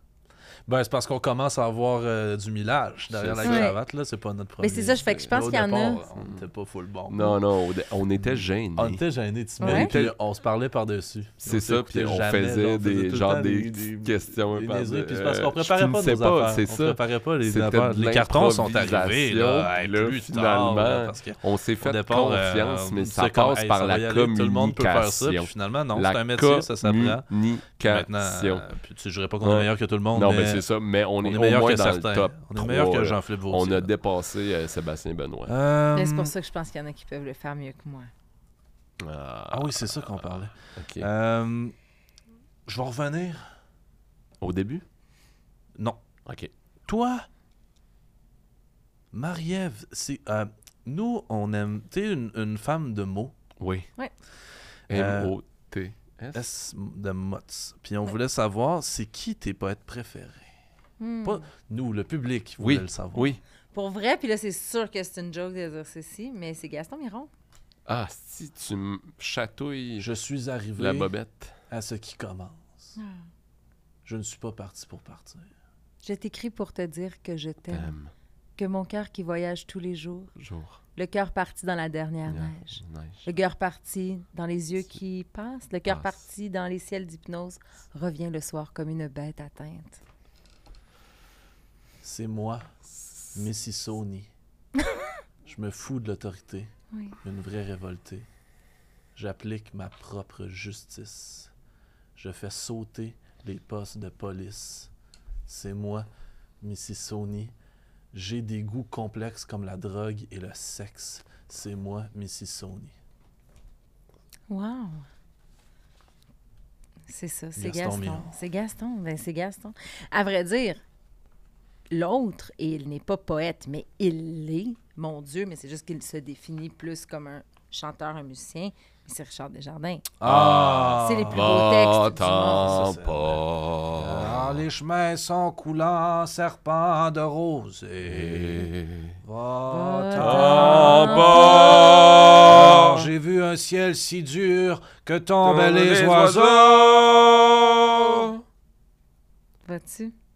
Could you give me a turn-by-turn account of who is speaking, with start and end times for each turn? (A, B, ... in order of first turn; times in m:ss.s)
0:00.6-0:07.3 A
0:03.1-0:03.7 B
0:03.4-0:03.8 C
0:04.6-0:06.0 C
0:05.0-0:05.3 B
0:06.2-0:06.4 B
0:07.1-0:09.0 B
0:08.2-0:27.3 A
0:09.6-0:09.9 C
0:09.6-0:10.2 B
0:11.4-0:28.7 B
0:27.8-0:30.6 A
0:29.4-0:35.5 B
0:31.2-0:33.9 A
0:35.5-0:36.3 A
0:35.9-0:38.1 C
0:39.0-0:41.1 B
0:39.5-0:41.7 A
0:42.6-0:43.5 A
0:44.4-0:44.8 B
0:45.8-0:46.0 A
0:46.2-0:46.5 B
0:46.9-0:47.3 A
0:49.1-0:53.3 A
0:53.6-0:53.9 B
0:54.9-0:56.4 B
0:54.9-0:55.3 A
0:56.3-1:00.5 A
1:01.0-1:01.4 C
1:01.2-1:03.3 A
1:02.6-1:03.4 B
1:03.7-1:07.3 C
1:07.8-1:10.1 B
1:10.0-1:11.1 A
1:10.8-1:11.6 B
1:11.7-1:12.9 A
1:13.0-1:13.2 C
1:14.0-1:15.5 A
1:16.0-1:17.9 C
1:17.7-1:18.1 B
1:18.6-1:20.3 C
1:20.4-1:20.8 B
1:21.0-1:30.0 C
1:22.3-1:23.2 B
1:25.9-1:26.2 B
1:32.0-1:32.7 A
1:33.3-1:34.3 A
1:34.8-1:35.0 C
1:35.4-1:36.7 A
1:36.9-1:37.2 C
1:37.2-1:38.3 A
1:39.1-1:41.5 A
1:42.2-1:44.9 A
1:45.4-1:46.1 A
1:46.6-1:47.5 A
1:48.1-1:52.9 A
1:54.5-1:55.0 C
1:57.1-2:00.8 C
1:57.6-1:58.4 A
2:01.9-2:10.1 C
2:10.2-2:11.5 A
2:10.2-2:14.6 B
2:11.0-2:12.9 C
2:12.5-2:13.4 A
2:13.9-2:18.7 A
2:18.0-2:19.2 B
2:19.2-2:28.2 A
2:19.7-2:22.0 C
2:20.2-2:23.1 B
2:25.4-2:28.4 B
2:29.6-2:30.1 C